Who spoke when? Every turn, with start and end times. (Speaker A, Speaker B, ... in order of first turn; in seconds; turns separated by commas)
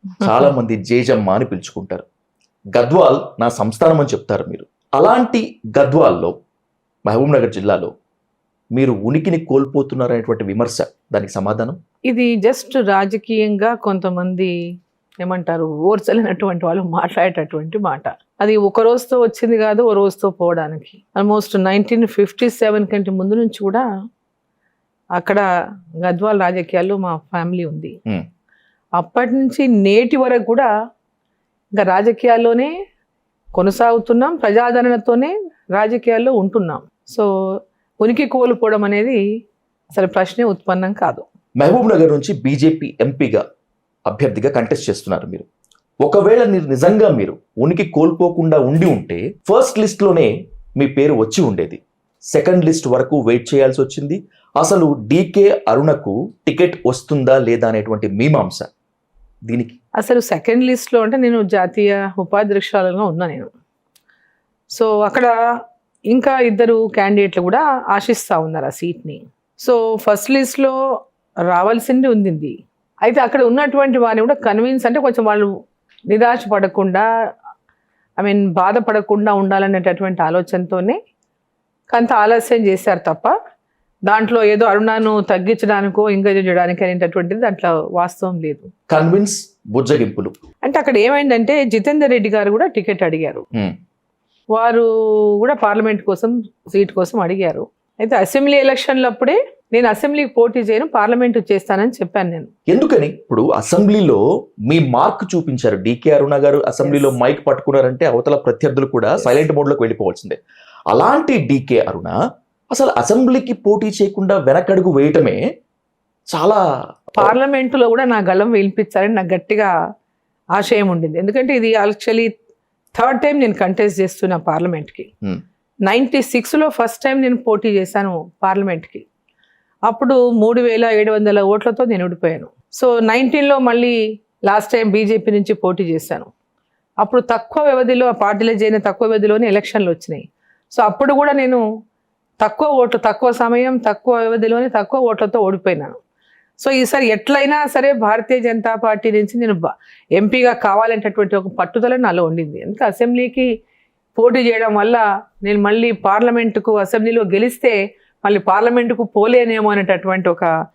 Speaker A: 0.2-2.0, Speaker A: 2.8-6.3, Speaker A: 7.1-7.9, Speaker A: 8.8-11.8, Speaker B: 12.1-14.6, Speaker B: 15.2-23.9, Speaker B: 25.2-25.4, Speaker B: 26.0-28.0, Speaker B: 29.0-30.7, Speaker B: 31.8-32.7, Speaker B: 33.5-37.3, Speaker B: 38.0-39.2, Speaker B: 39.9-41.3, Speaker A: 41.6-43.4, Speaker A: 44.1-45.5, Speaker A: 46.0-51.8, Speaker A: 52.3-58.7, Speaker A: 59.5-59.8, Speaker B: 60.0-63.5, Speaker B: 64.8-65.3, Speaker B: 66.1-70.8, Speaker B: 71.5-75.5, Speaker B: 76.1-77.1, Speaker B: 78.2-81.0, Speaker B: 81.9-83.3, Speaker B: 84.1-88.7, Speaker A: 88.9-90.3, Speaker B: 90.6-93.5, Speaker B: 94.5-94.9, Speaker B: 95.4-102.5, Speaker A: 102.7-110.4, Speaker B: 106.8-107.2, Speaker B: 109.2-109.4, Speaker A: 110.9-112.2, Speaker A: 112.7-115.4, Speaker A: 116.3-116.6, Speaker B: 117.2-119.7, Speaker B: 120.6-122.3, Speaker B: 123.0-125.1, Speaker B: 125.9-129.1, Speaker B: 129.9-136.3, Speaker B: 137.0-141.6, Speaker B: 142.4-145.9, Speaker B: 146.6-153.5, Speaker B: 154.2-160.5